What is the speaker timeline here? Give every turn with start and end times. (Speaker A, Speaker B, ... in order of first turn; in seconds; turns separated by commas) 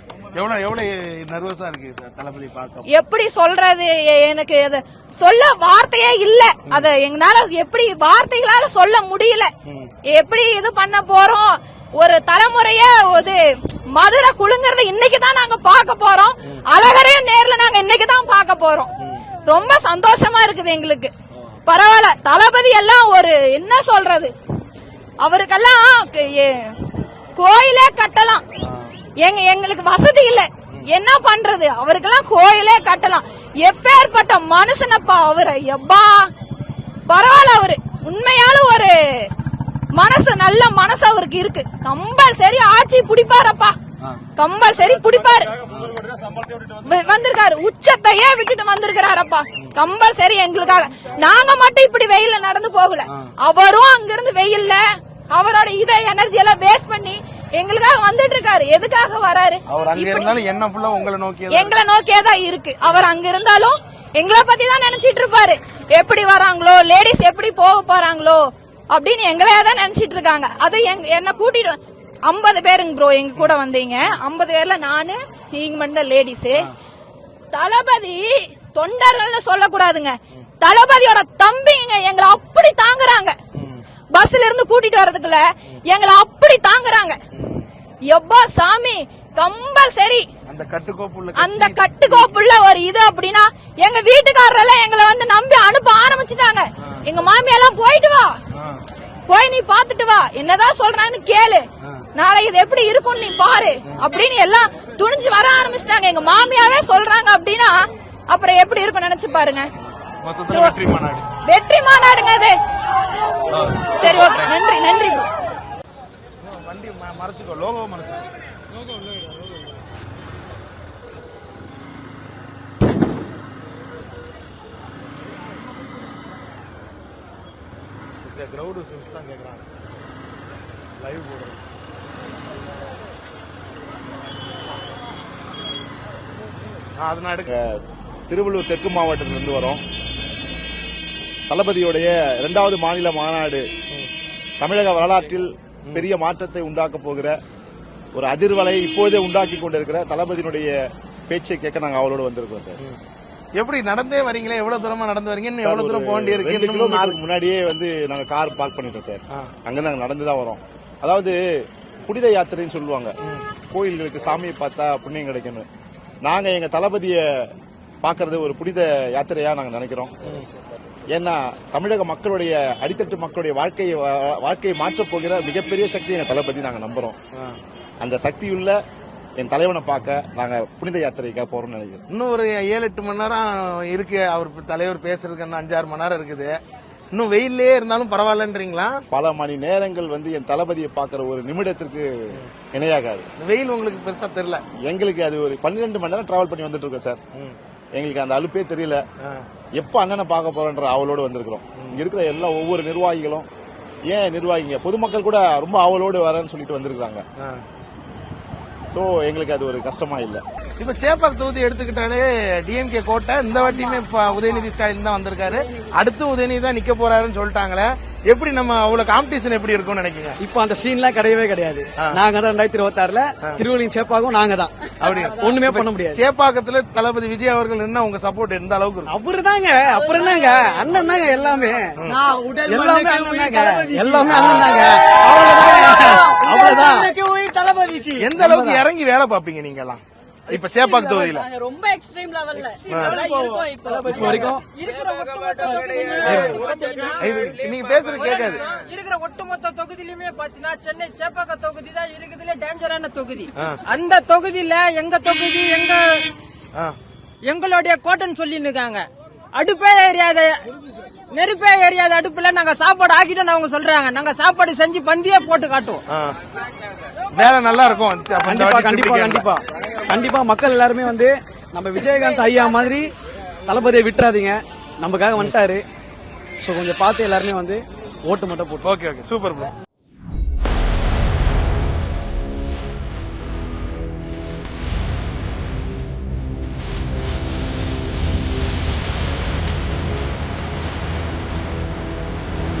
Speaker A: 0.3-2.9, Speaker B: 2.9-9.5, Speaker A: 9.7-9.9, Speaker B: 10.1-13.4, Speaker B: 13.9-18.9, Speaker B: 19.5-21.1, Speaker B: 21.6-24.3, Speaker B: 25.2-26.7, Speaker B: 27.4-28.4, Speaker A: 28.6-28.9, Speaker B: 29.2-36.3, Speaker B: 37.1-39.3, Speaker B: 40.0-43.8, Speaker B: 44.4-45.5, Speaker A: 45.7-45.9, Speaker B: 46.8-54.8, Speaker B: 55.3-60.3, Speaker A: 59.7-61.7, Speaker B: 61.5-68.4, Speaker B: 68.9-76.7, Speaker A: 73.4-74.2, Speaker B: 77.5-83.3, Speaker A: 83.5-83.8, Speaker B: 84.1-87.2, Speaker A: 87.3-87.7, Speaker B: 88.1-90.2, Speaker A: 90.5-92.3, Speaker B: 91.4-98.3, Speaker A: 98.5-98.8, Speaker B: 99.3-101.6, Speaker B: 102.2-107.8, Speaker B: 108.3-109.7, Speaker A: 110.2-111.3, Speaker B: 110.5-110.8, Speaker B: 111.5-112.6, Speaker A: 113.5-114.5, Speaker B: 114.0-115.3, Speaker A: 116.4-118.2, Speaker A: 119.0-119.6, Speaker A: 128.2-129.6, Speaker A: 131.0-131.6, Speaker A: 137.0-137.5, Speaker C: 137.5-139.8, Speaker C: 141.5-143.7, Speaker C: 144.6-147.4, Speaker C: 148.2-150.7, Speaker C: 151.3-152.8, Speaker A: 153.6-157.2, Speaker C: 155.6-161.3, Speaker C: 162.1-163.1, Speaker C: 163.7-165.7, Speaker C: 166.2-167.5, Speaker C: 168.0-170.1, Speaker C: 171.1-177.2, Speaker C: 178.0-178.8, Speaker C: 179.4-182.0, Speaker A: 182.1-186.6, Speaker A: 187.1-189.0, Speaker C: 189.1-192.1, Speaker C: 192.7-193.3, Speaker A: 193.4-194.6, Speaker C: 194.8-197.2, Speaker C: 197.9-199.0, Speaker C: 199.8-203.5, Speaker C: 204.1-207.2, Speaker C: 208.9-210.4, Speaker A: 210.8-220.4, Speaker D: 220.4-224.7, Speaker A: 225.0-229.1, Speaker D: 225.3-226.2, Speaker D: 229.1-232.0, Speaker E: 229.9-231.4, Speaker E: 232.1-234.3, Speaker D: 232.6-237.1, Speaker A: 234.3-234.7, Speaker F: 236.3-237.1, Speaker A: 238.2-241.4, Speaker D: 238.3-238.8, Speaker E: 240.7-244.6, Speaker A: 242.9-243.2, Speaker D: 242.9-244.6, Speaker F: 244.7-247.3, Speaker E: 245.7-246.8, Speaker A: 246.2-246.7, Speaker A: 247.2-248.6, Speaker F: 248.2-256.0, Speaker F: 257.4-260.6, Speaker F: 261.3-266.0, Speaker A: 266.1-266.4, Speaker A: 267.3-269.4, Speaker D: 268.4-273.1, Speaker D: 273.6-275.8, Speaker D: 276.6-278.9, Speaker A: 278.9-279.7